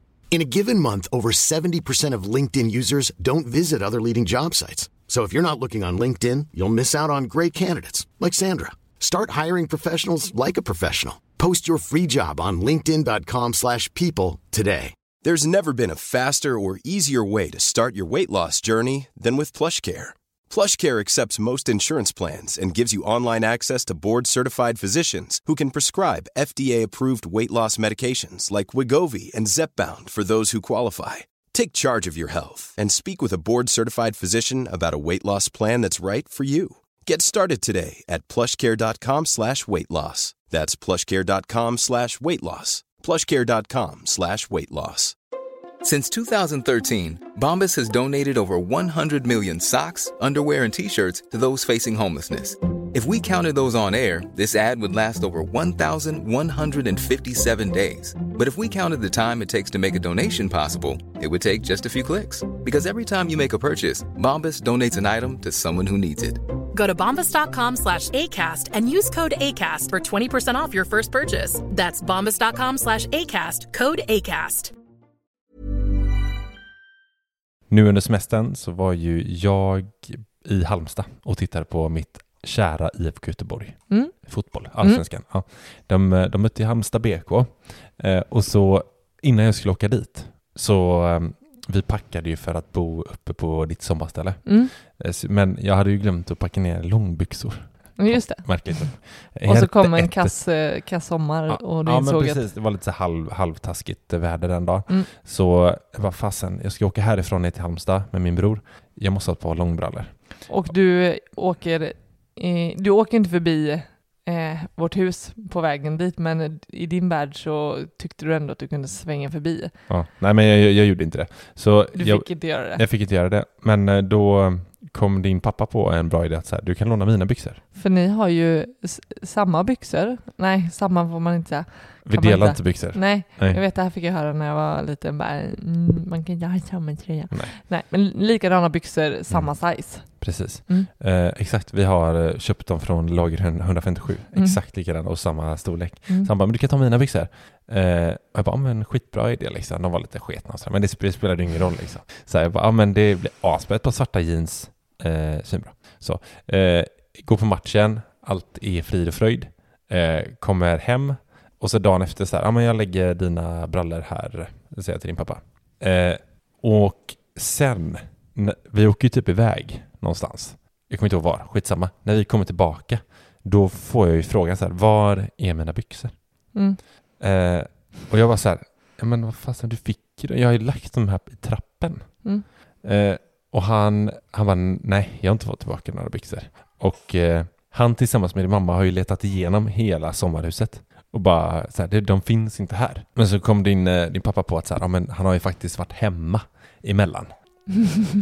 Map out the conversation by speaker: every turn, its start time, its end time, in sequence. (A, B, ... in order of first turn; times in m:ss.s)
0:00.3-0:15.0 A
0:15.2-0:45.2 B
0:45.8-1:06.4 C
1:06.7-1:14.7 D
1:17.7-1:40.5 E
1:23.9-1:25.0 F
1:34.4-1:34.7 F
1:38.0-1:42.4 F
1:41.5-1:50.5 E
1:50.5-1:59.7 F
1:59.9-2:07.6 E
2:01.9-2:02.8 F
2:07.7-2:20.9 F
2:12.0-2:13.6 E
2:17.3-2:17.5 E
2:19.3-2:56.6 E
2:56.5-2:56.8 F
2:57.2-3:17.4 E